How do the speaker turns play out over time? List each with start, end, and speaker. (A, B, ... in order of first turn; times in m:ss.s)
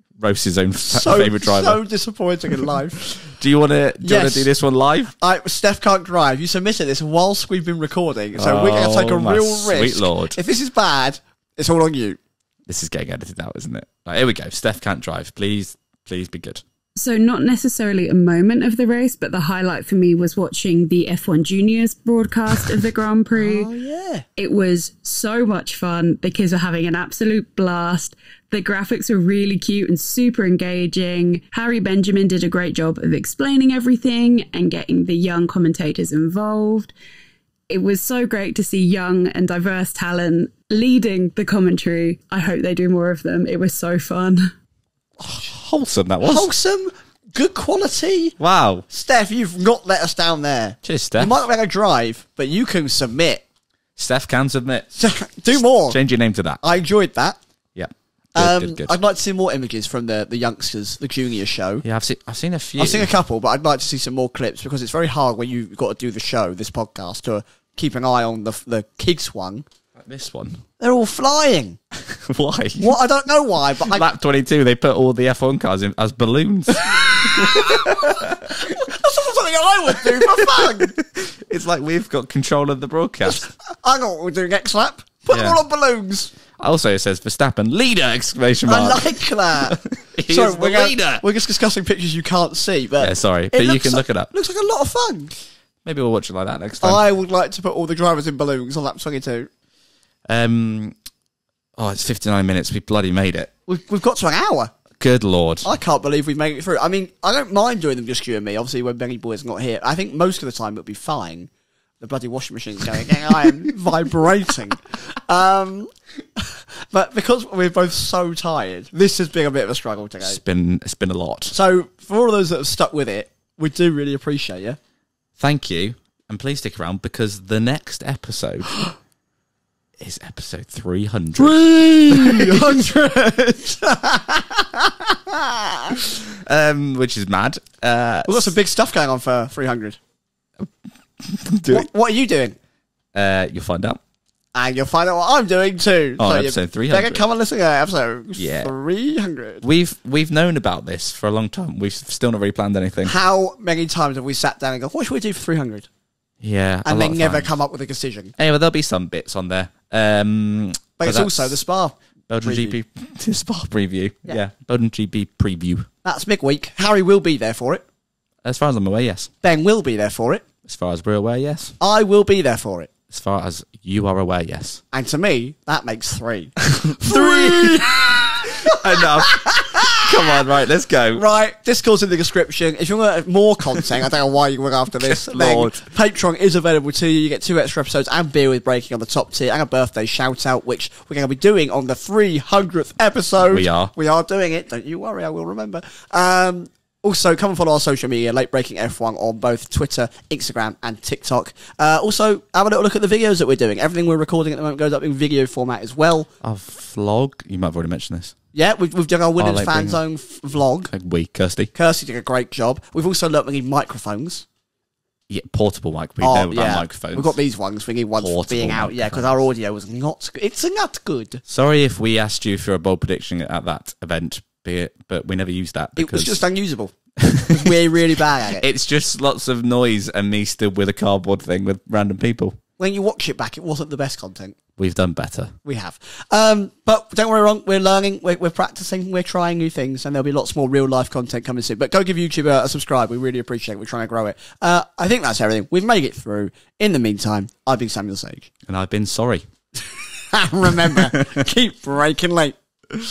0:00.2-0:01.8 A
0:00.9-0:03.0 B
0:03.1-0:05.1 A
0:04.0-0:04.5 B
0:05.2-0:12.2 B
0:08.4-0:10.4 A
0:12.7-0:16.6 A
0:17.0-0:23.7 C
0:23.3-0:24.2 B
0:24.4-0:36.9 C
0:37.7-0:44.5 C
0:45.3-0:46.5 A
0:46.2-0:48.4 B
0:48.4-0:48.8 A
0:48.9-0:53.4 B
0:50.8-0:51.3 A
0:54.0-0:54.9 A
0:54.9-0:56.0 B
0:55.5-0:56.6 A
0:56.6-0:57.4 B
0:57.7-0:59.0 A
0:58.4-1:01.8 B
1:01.8-1:03.1 A
1:02.8-1:09.6 B
1:10.0-1:10.6 A
1:10.8-1:11.8 B
1:11.9-1:13.0 A
1:12.8-1:14.1 B
1:13.8-1:18.7 A
1:17.0-1:20.9 B
1:20.0-1:23.4 A
1:23.2-1:26.3 B
1:25.3-1:25.6 A
1:26.6-1:31.2 A
1:28.7-1:35.3 B
1:33.0-1:34.3 A
1:35.8-1:37.0 A
1:36.8-1:39.5 B
1:40.3-1:40.9 A
1:41.8-1:43.5 A
1:43.7-1:44.7 B
1:45.0-1:45.7 A
1:45.6-2:00.4 B
2:00.2-2:01.6 A
2:01.5-2:04.8 B
2:05.4-2:08.7 A
2:10.0-2:12.6 A
2:11.4-2:16.0 B
2:16.3-2:18.6 A
2:18.2-2:20.0 B
2:20.6-2:21.9 A
2:21.7-2:22.6 B
2:23.1-2:24.0 A
2:24.5-2:29.6 B
2:26.2-2:27.2 A
2:28.4-2:28.7 A
2:29.6-2:33.1 A
2:33.0-2:35.9 B
2:36.4-2:37.5 A
2:36.8-2:38.3 B
2:38.4-2:41.6 A
2:41.0-2:42.8 B
2:42.3-2:45.9 A
2:46.0-2:47.8 B
2:48.4-2:49.3 A
2:49.4-2:50.4 B
2:50.6-2:51.8 A
2:51.8-2:52.9 B
2:53.1-2:54.8 A
2:54.9-3:00.4 B
2:56.7-3:01.2 A
3:01.1-3:26.3 B
3:05.0-3:05.9 A
3:13.4-3:13.9 A
3:26.4-3:28.4 A
3:28.5-3:30.9 B
3:29.4-3:30.0 A
3:30.9-3:31.7 A
3:31.7-3:34.4 B
3:35.3-3:37.4 A
3:36.2-3:41.4 B
3:38.2-3:39.4 A
3:41.5-3:46.4 A
3:46.0-3:46.9 B
3:47.2-3:47.7 A
3:47.4-3:48.6 B
3:48.6-3:52.6 A
3:52.8-3:54.6 B
3:54.8-3:55.5 A
3:55.6-4:08.5 B
4:08.7-4:09.4 A
4:10.0-4:12.5 B
4:10.9-4:11.3 A